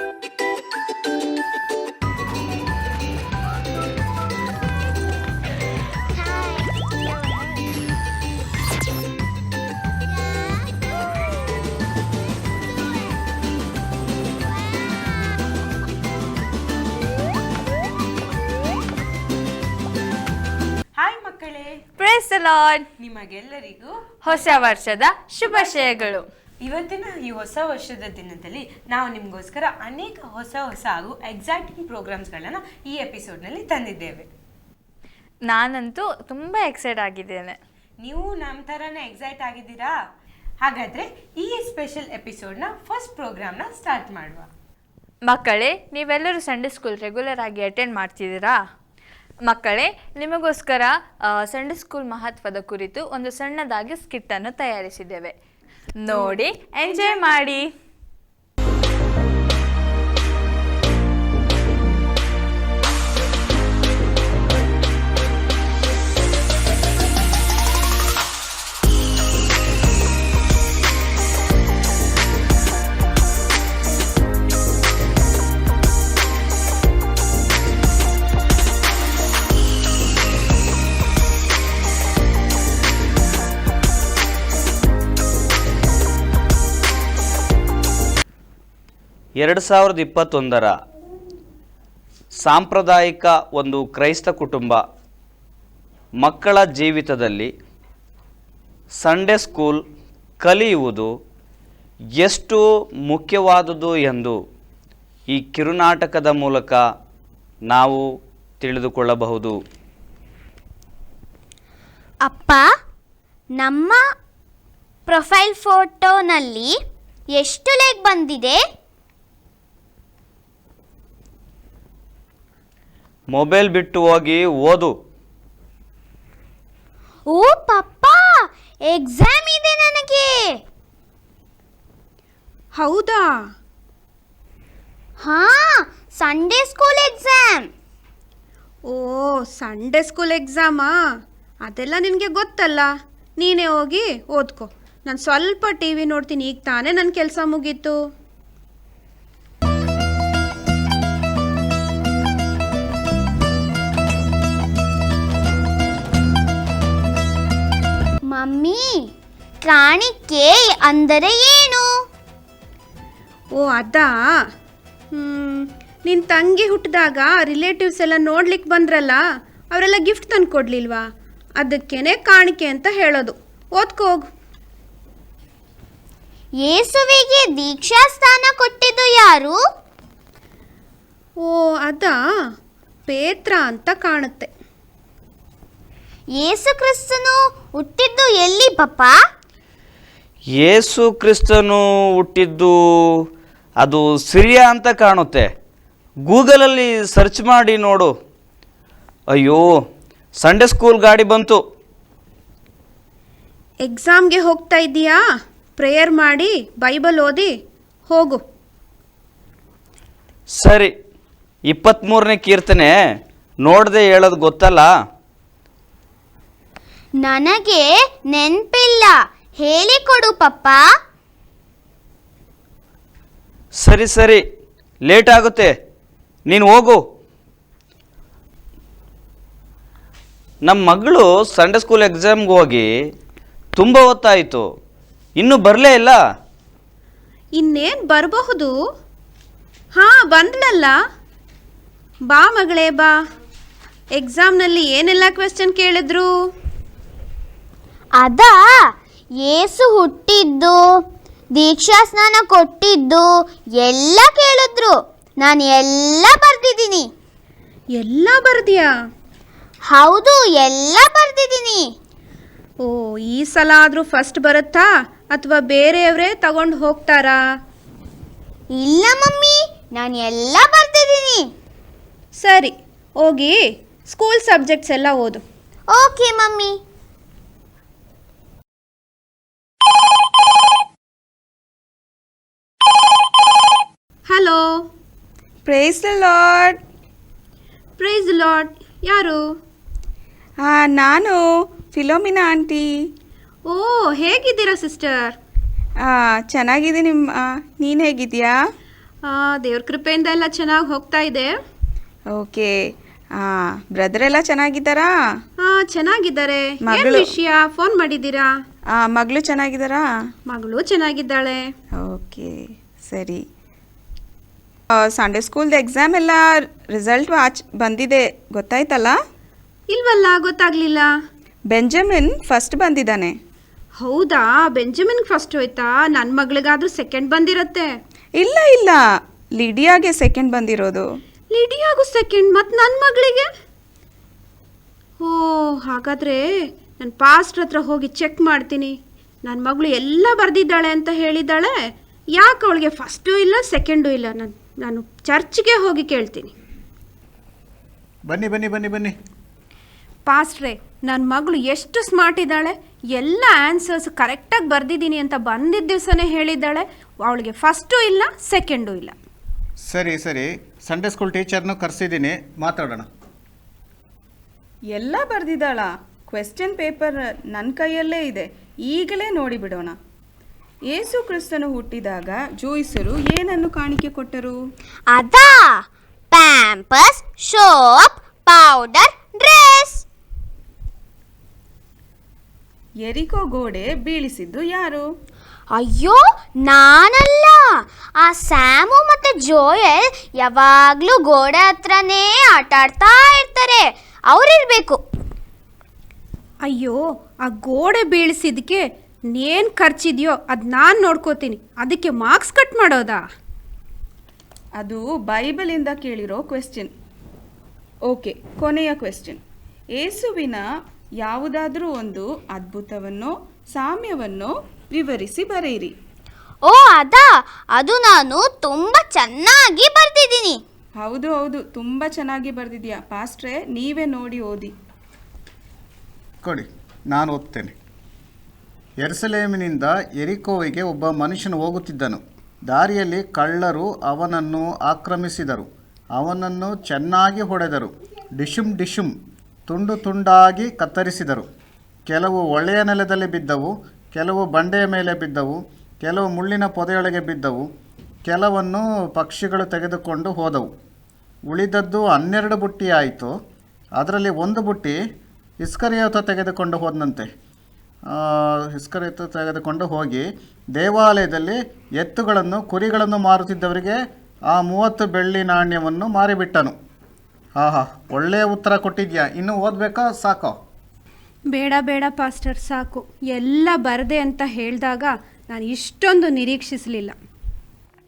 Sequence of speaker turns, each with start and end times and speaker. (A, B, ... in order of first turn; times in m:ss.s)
0:06.1-0:07.2 A
0:10.0-0:11.6 A
0:12.6-0:13.2 A
0:14.5-0:15.4 A
0:21.0-0:21.8 B
0:22.0-0:22.9 C
0:23.0-0:24.8 B
0:24.2-0:26.3 C
0:25.4-0:34.3 B
0:35.5-0:37.6 C
0:38.0-0:40.0 B
0:40.6-0:44.5 B
0:45.3-0:48.6 C
0:49.5-0:55.3 C
0:56.0-0:57.7 C
0:56.1-0:57.2 B
1:29.4-1:30.7 D
1:32.4-1:34.8 D
1:36.2-1:37.5 D
1:39.0-1:39.8 D
1:40.4-1:41.1 D
1:42.2-1:44.4 D
1:45.3-1:46.8 D
1:47.7-1:48.0 D
1:48.6-1:49.6 D
1:52.2-1:52.6 A
1:53.6-1:54.0 A
1:55.1-1:56.7 A
1:57.3-1:58.6 A
2:03.3-2:04.9 D
2:07.3-2:10.6 A
2:12.8-2:13.3 E
2:15.2-2:17.7 A
2:18.9-2:20.9 E
2:21.6-2:22.9 E
2:23.4-2:28.0 E
2:38.3-2:39.1 A
2:39.6-2:41.9 A
2:43.6-2:44.2 E
2:45.1-2:49.2 E
2:49.7-2:51.0 E
2:51.6-2:54.3 E
2:56.6-2:59.6 A
3:01.4-3:02.2 E
3:03.1-3:04.5 E
3:06.4-3:09.2 A
3:10.5-3:13.2 D
3:13.8-3:15.5 D
3:16.3-3:18.1 D
3:19.3-3:19.7 D
3:20.4-3:21.6 D
3:23.8-3:25.2 E
3:25.8-3:27.5 E
3:28.1-3:28.4 E
3:30.5-3:30.9 D
3:31.7-3:33.0 D
3:33.6-3:34.9 D
3:37.2-3:40.8 A
3:43.8-3:44.4 D
3:45.0-3:45.7 D
3:46.5-3:47.0 D
3:50.6-3:52.9 D
3:53.8-3:54.6 D
3:55.4-3:56.2 D
3:57.6-3:58.7 E
3:59.9-4:00.9 E
4:02.3-4:03.1 E
4:04.2-4:06.3 E
4:08.2-4:11.0 A
4:11.6-4:17.1 A
4:18.0-4:18.9 E
4:19.9-4:21.9 A
4:22.8-4:27.4 E
4:28.7-4:31.5 A
4:32.4-4:35.4 E
4:35.9-4:36.8 A
4:44.3-4:44.6 E
4:45.6-4:46.8 F
4:48.0-4:49.4 E
4:50.6-4:51.4 F
4:51.9-4:52.8 F
4:53.7-4:55.3 E
4:56.0-4:58.5 F
4:59.3-5:01.5 E
5:02.3-5:02.7 F
5:03.4-5:05.1 F
5:05.6-5:08.5 E
5:06.8-5:07.3 F
5:09.0-5:10.0 F
5:10.5-5:11.6 E
5:12.0-5:13.4 F
5:15.0-5:19.2 F
5:19.9-5:21.1 E
5:21.7-5:23.3 F
5:24.0-5:27.9 E
5:28.4-5:29.0 F
5:29.6-5:31.0 F
5:31.5-5:33.5 E
5:35.2-5:36.4 E
5:37.0-5:38.9 E
5:39.4-5:41.7 E
5:42.4-5:46.5 E
5:48.3-5:49.1 G
5:50.3-5:59.1 E
5:59.9-6:03.1 G
6:04.9-6:10.0 F
6:10.9-6:14.6 F
6:15.1-6:20.0 A
6:23.0-6:25.0 F
6:25.7-6:27.6 A
6:28.2-6:35.0 A
6:36.7-6:43.2 E
6:44.8-6:46.9 F
6:48.1-6:49.4 F
6:50.0-6:50.6 F
6:51.2-6:55.9 F
6:56.6-7:00.6 A
7:01.0-7:04.7 F
7:06.4-7:07.7 G
7:09.0-7:19.1 G
7:19.7-7:21.4 G
7:22.1-7:27.6 G
7:28.3-7:30.7 G
7:31.5-7:33.3 G
7:34.0-7:35.0 G
7:35.6-7:37.3 G
7:38.1-7:46.7 G
7:47.6-7:50.5 G
7:51.5-7:57.2 E